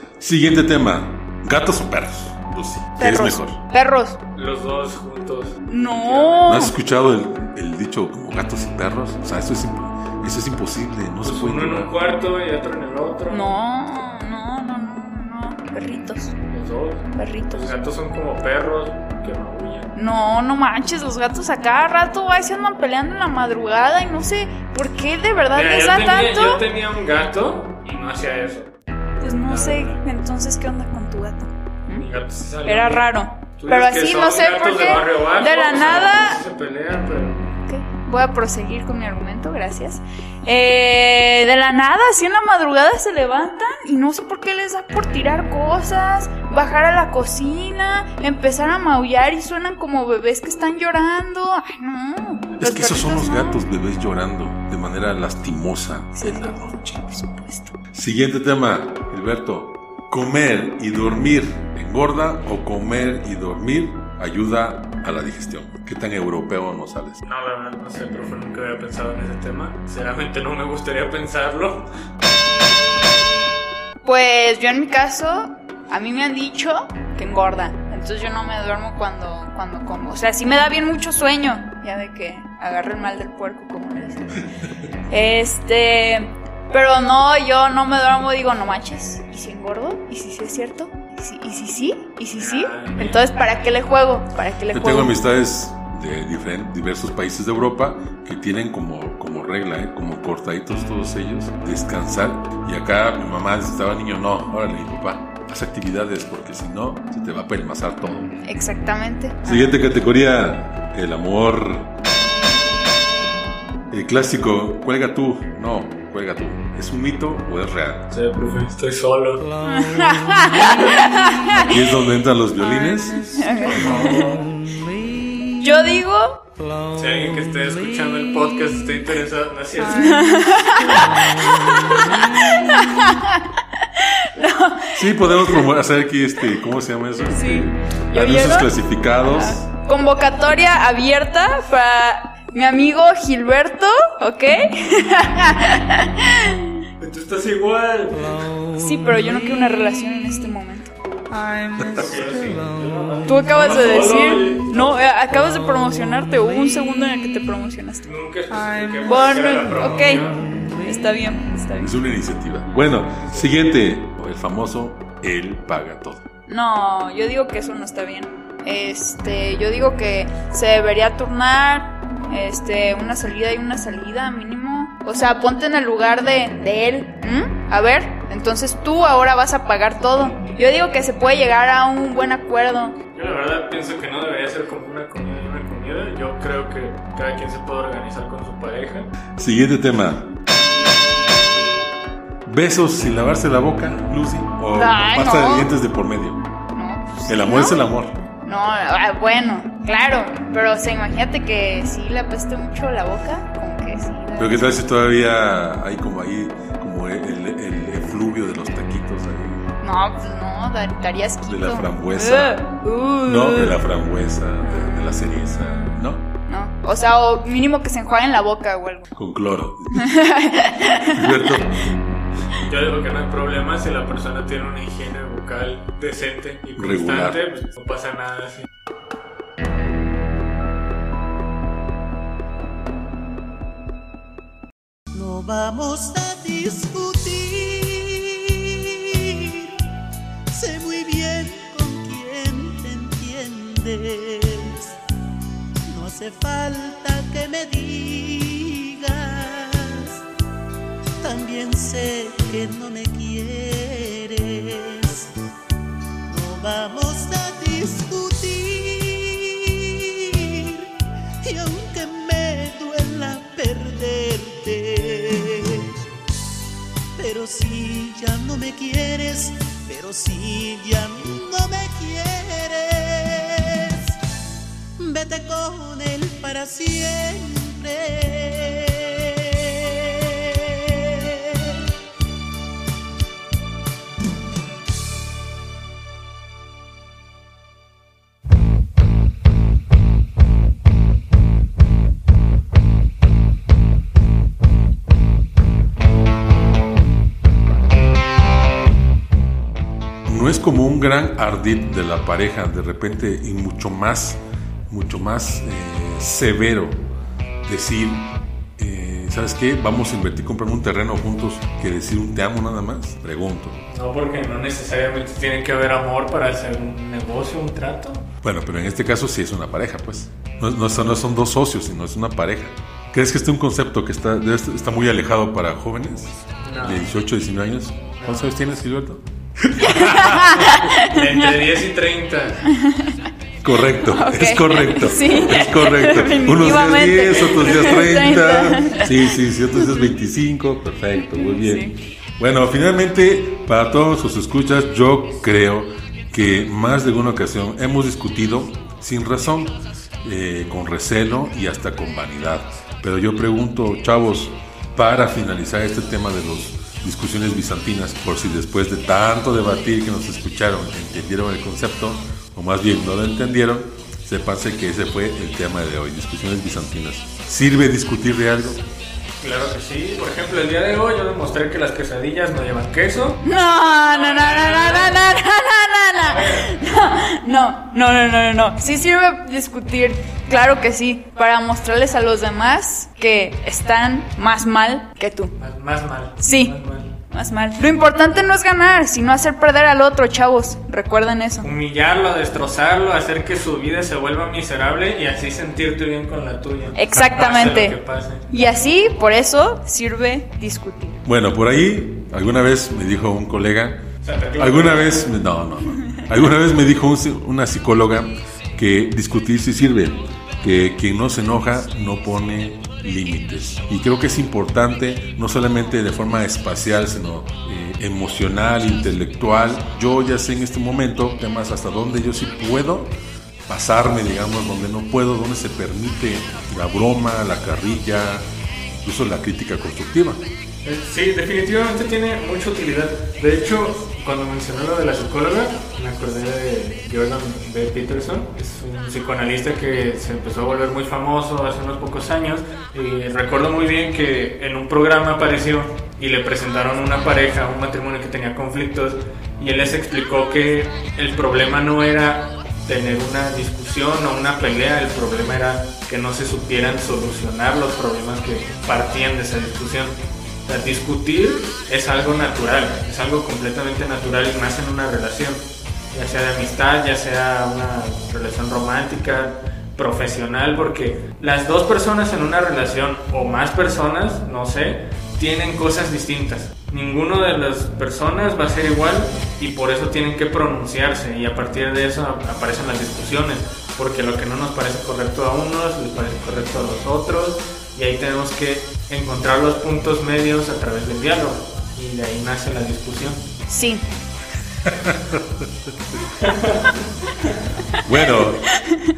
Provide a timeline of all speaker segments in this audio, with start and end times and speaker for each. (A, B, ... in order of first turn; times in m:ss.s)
0:00.2-0:03.6 A
0:03.0-0:04.2 B
0:04.4-0:06.6 C
0:05.7-0:06.8 B
0:06.5-0:11.9 A
0:11.2-0:13.5 C
0:13.3-0:16.4 B
0:16.5-0:19.9 C
0:17.2-0:17.7 B
0:20.0-0:26.6 B
0:25.5-0:30.0 C
0:29.2-0:32.1 B
0:32.0-0:37.4 C
0:32.7-0:36.4 B
0:37.7-0:53.6 B
0:52.6-0:57.0 A
0:56.2-0:57.7 B
0:57.9-1:07.2 A
1:07.2-1:11.9 C
1:14.0-1:24.4 B
1:25.1-1:35.2 B
1:32.4-1:33.2 C
1:34.7-1:48.4 A
1:48.4-1:49.8 B
1:49.4-1:51.9 A
1:53.9-1:58.1 A
1:58.1-1:59.5 C
1:59.7-2:01.8 B
2:01.6-2:03.5 A
2:02.9-2:04.4 B
2:03.6-2:04.5 C
2:05.6-2:06.4 B
2:07.0-2:11.0 C
2:09.9-2:15.7 B
2:15.0-2:19.7 A
2:17.3-2:26.7 B
2:27.0-2:28.5 C
2:28.8-2:30.9 B
2:31.8-2:32.1 A
2:31.9-2:35.0 C
2:33.3-2:38.1 B
2:38.0-2:40.4 C
2:39.0-2:40.3 B
2:40.8-2:41.9 B
2:41.8-2:46.2 A
2:46.5-3:03.0 B
3:03.1-3:09.1 C
3:09.4-3:10.4 A
3:12.4-3:16.4 A
3:14.8-3:15.7 B
3:16.7-3:17.9 B
3:17.3-3:18.2 A
3:18.4-3:24.8 B
3:24.4-3:29.6 A
3:29.8-3:33.8 B
3:31.5-3:32.7 A
3:33.2-3:36.3 A
3:34.6-3:39.1 B
3:39.2-3:40.2 A
3:39.9-3:41.5 B
3:41.1-3:42.0 A
3:42.6-3:48.7 C
3:46.8-3:47.4 A
3:55.1-3:59.9 D
4:00.5-4:05.0 D
4:05.9-4:10.2 D
4:11.2-4:15.3 D
4:16.3-4:26.0 D
4:27.2-4:34.2 D
4:35.0-4:41.8 D
5:00.3-5:07.0 A
5:07.6-5:13.8 A
5:13.9-5:18.3 C
5:18.4-5:30.8 A
5:26.6-5:27.1 C
5:28.2-5:28.5 C
5:29.8-5:31.5 B
5:30.9-5:32.7 C
5:32.7-5:33.2 B
5:33.6-6:08.8 A
5:34.0-5:39.4 B
5:41.3-5:42.0 B
6:09.4-6:15.2 C
6:13.4-6:25.6 B
6:16.2-6:16.7 C
6:25.6-6:27.1 C
6:26.4-6:26.8 B
6:27.3-6:31.7 B
6:31.6-6:38.6 C
6:37.0-6:38.0 B
6:38.5-6:41.2 B
6:41.2-6:44.1 A
6:44.2-6:45.3 C
6:44.6-7:03.2 A
7:03.7-7:10.5 A
7:10.8-8:13.4 C
8:13.7-8:14.0 B
8:14.8-8:15.7 A
8:16.4-8:17.6 C
8:18.0-8:18.7 A